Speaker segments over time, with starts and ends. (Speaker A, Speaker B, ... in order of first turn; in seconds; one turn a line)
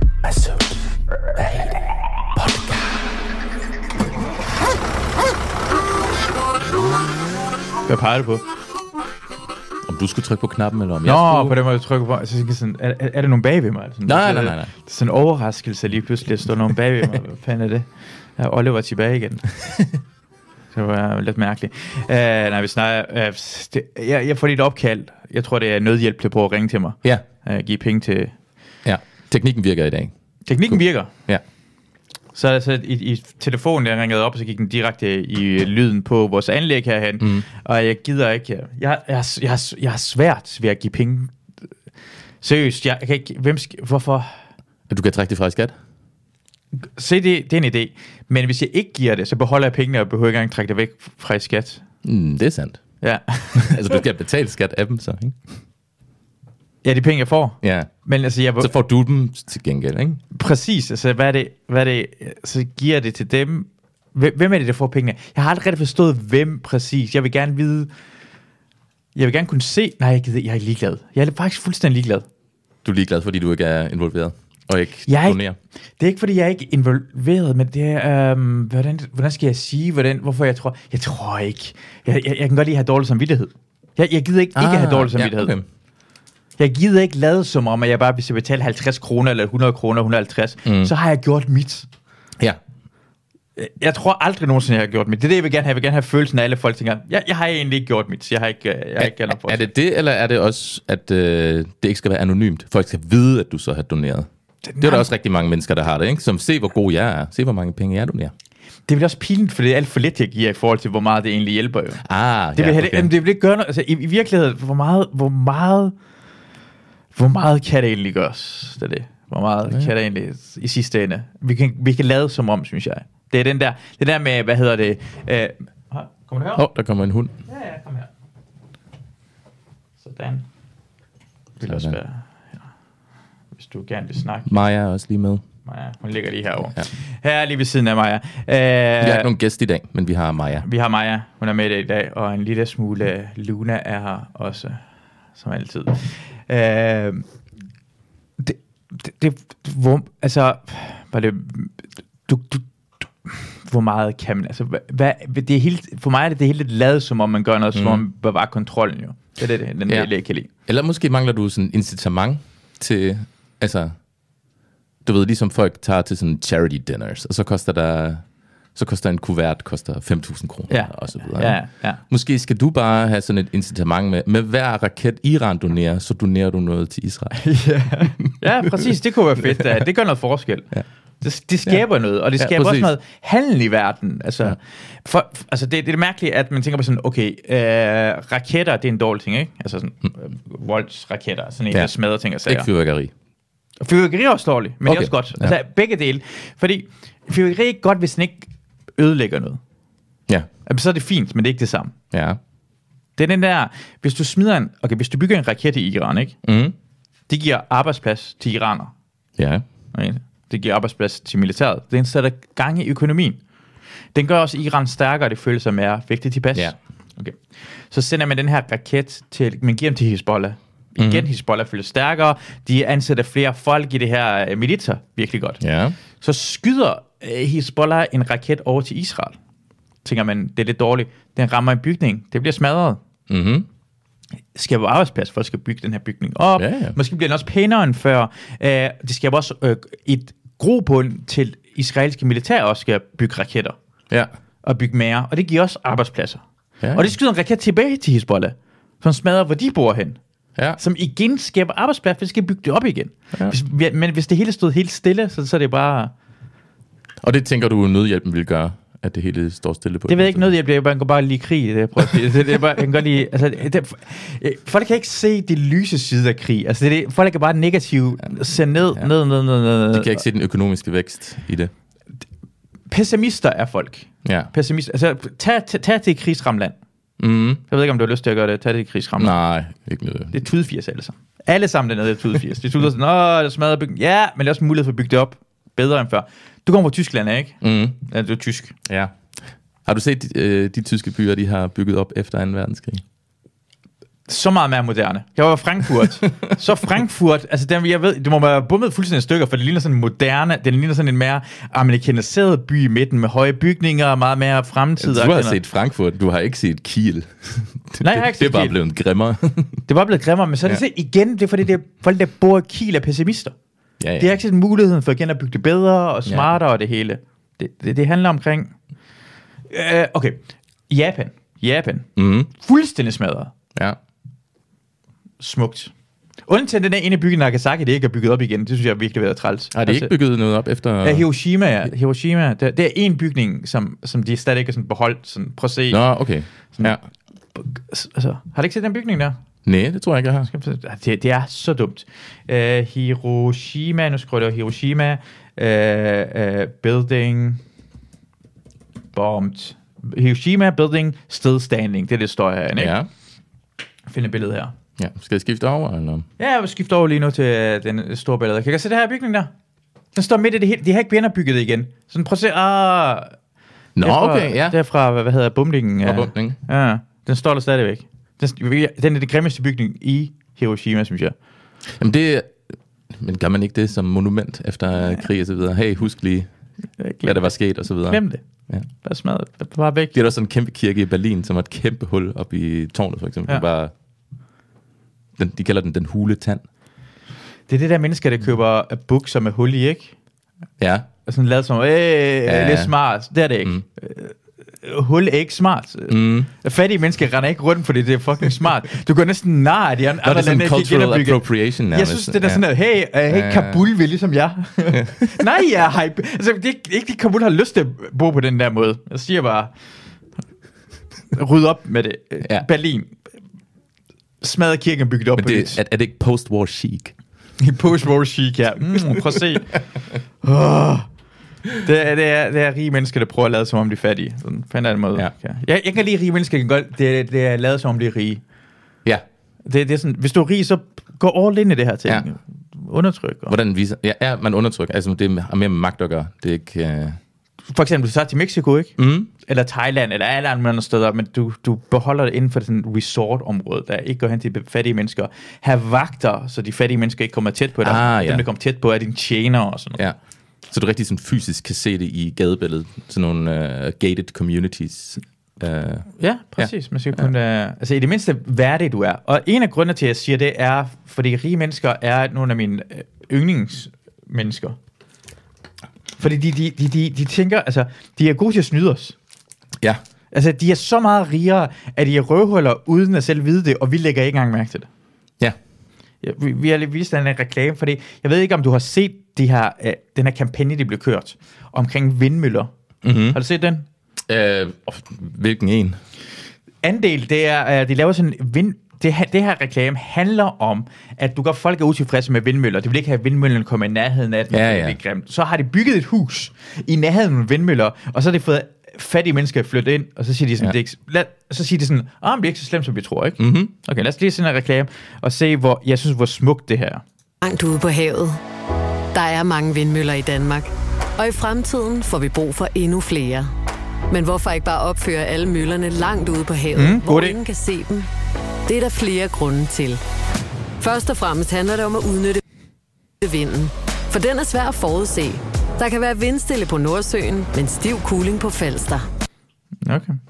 Speaker A: 2.4-2.7
Speaker B: 7.9-8.4
Speaker A: 9.8-11.6
Speaker B: 11.0-19.5
Speaker A: 14.1-14.7
Speaker B: 20.7-28.3
Speaker A: 28.8-30.1
Speaker B: 30.4-31.1
Speaker A: 30.7-31.4
Speaker B: 32.3-41.3
Speaker A: 37.2-37.5
Speaker B: 42.4-44.3
Speaker A: 44.9-45.7
Speaker B: 47.0-51.8
Speaker A: 52.0-52.8
Speaker B: 53.0-53.9
Speaker A: 53.5-55.5
Speaker B: 56.8-58.7
Speaker A: 57.6-57.9
Speaker A: 58.6-60.2
Speaker B: 60.3-67.9
Speaker B: 69.1-72.2
Speaker A: 72.8-75.5
Speaker B: 75.0-75.4
Speaker B: 76.0-85.5
Speaker A: 84.5-85.6
Speaker B: 86.6-91.9
Speaker A: 90.6-90.9
Speaker B: 93.5-99.7
Speaker A: 99.0-104.3
Speaker B: 104.6-105.1
Speaker A: 104.8-108.3
Speaker B: 108.9-112.0
Speaker A: 112.0-113.1
Speaker B: 112.5-115.9
Speaker B: 117.1-126.7
Speaker A: 126.5-127.3
Speaker B: 127.5-128.1
Speaker B: 130.0-130.4
Speaker B: 131.6-132.6
Speaker A: 131.6-132.0
Speaker B: 133.5-134.6
Speaker A: 134.5-135.4
Speaker B: 135.7-139.3
Speaker A: 139.0-140.7
Speaker B: 140.6-144.8
Speaker B: 145.3-147.2
Speaker B: 148.4-160.5
Speaker A: 157.7-158.0
Speaker A: 160.7-163.9
Speaker A: 165.0-177.4
Speaker B: 170.7-172.0
Speaker B: 177.3-180.7
Speaker A: 178.0-178.9
Speaker B: 181.2-192.7
Speaker A: 182.4-182.9
Speaker A: 192.4-193.1
Speaker B: 193.8-199.6
Speaker A: 194.8-195.5
Speaker B: 200.7-201.9
Speaker A: 202.1-202.4
Speaker B: 203.2-206.4
Speaker A: 206.4-206.7
Speaker B: 207.3-208.9
Speaker A: 209.4-209.6
Speaker B: 209.9-213.4
Speaker B: 214.1-217.4
Speaker B: 217.9-225.6
Speaker A: 221.0-221.2
Speaker A: 225.6-225.9
Speaker B: 226.2-229.3
Speaker B: 230.0-233.0
Speaker A: 233.3-233.7
Speaker B: 234.5-243.8
Speaker A: 236.6-236.9
Speaker B: 244.6-250.2
Speaker A: 246.8-247.1
Speaker B: 250.8-256.1
Speaker A: 257.2-260.5
Speaker B: 260.1-270.2
Speaker A: 269.9-271.7
Speaker B: 272.9-276.8
Speaker A: 274.2-274.5
Speaker A: 277.2-277.6
Speaker B: 277.7-279.4
Speaker A: 279.2-280.4
Speaker B: 280.3-288.8
Speaker A: 287.6-288.0
Speaker A: 288.9-289.1
Speaker A: 289.9-293.0
Speaker B: 294.3-305.6
Speaker A: 305.0-309.8
Speaker B: 308.0-308.8
Speaker B: 309.9-313.5
Speaker A: 314.0-314.4
Speaker B: 314.2-318.7
Speaker A: 316.2-316.5
Speaker B: 319.7-323.5
Speaker A: 322.1-322.5
Speaker B: 325.4-325.9
Speaker B: 326.5-330.1
Speaker A: 329.7-331.3
Speaker B: 331.0-336.0
Speaker A: 335.9-337.0
Speaker B: 337.5-339.4
Speaker A: 339.6-340.5
Speaker B: 340.5-347.6
Speaker B: 349.1-352.9
Speaker A: 352.8-353.1
Speaker B: 354.1-354.7
Speaker A: 355.0-356.2
Speaker B: 356.4-359.5
Speaker B: 360.1-363.3
Speaker A: 363.9-364.8
Speaker B: 364.0-371.3
Speaker A: 366.0-366.6
Speaker A: 371.9-376.5
Speaker B: 377.0-380.1
Speaker A: 377.2-378.9
Speaker A: 380.1-383.9
Speaker A: 385.4-386.6
Speaker B: 387.7-390.1
Speaker A: 390.8-391.1
Speaker B: 391.2-409.7
Speaker A: 392.4-392.9
Speaker A: 396.1-396.5
Speaker A: 400.2-402.7
Speaker A: 403.3-403.9
Speaker A: 404.9-405.4
Speaker B: 411.3-413.2
Speaker B: 414.4-415.8
Speaker A: 415.4-417.1
Speaker B: 417.6-419.8
Speaker B: 420.4-421.1
Speaker B: 421.8-428.4
Speaker B: 429.6-433.6
Speaker A: 433.5-437.2
Speaker B: 437.7-450.0
Speaker A: 439.0-439.3
Speaker A: 447.8-448.4
Speaker A: 450.7-457.3
Speaker B: 456.2-464.8
Speaker B: 466.2-469.1
Speaker B: 470.3-474.9
Speaker B: 476.2-482.7
Speaker A: 483.0-483.4
Speaker B: 483.3-483.9
Speaker A: 484.3-486.0
Speaker B: 486.8-507.0
Speaker A: 494.5-495.0
Speaker A: 503.4-503.7
Speaker C: 507.4-508.4
Speaker C: 509.1-513.5
Speaker C: 514.1-518.1
Speaker B: 516.7-517.4
Speaker C: 518.6-520.0
Speaker C: 520.8-522.4
Speaker C: 523.2-529.0
Speaker B: 529.8-530.2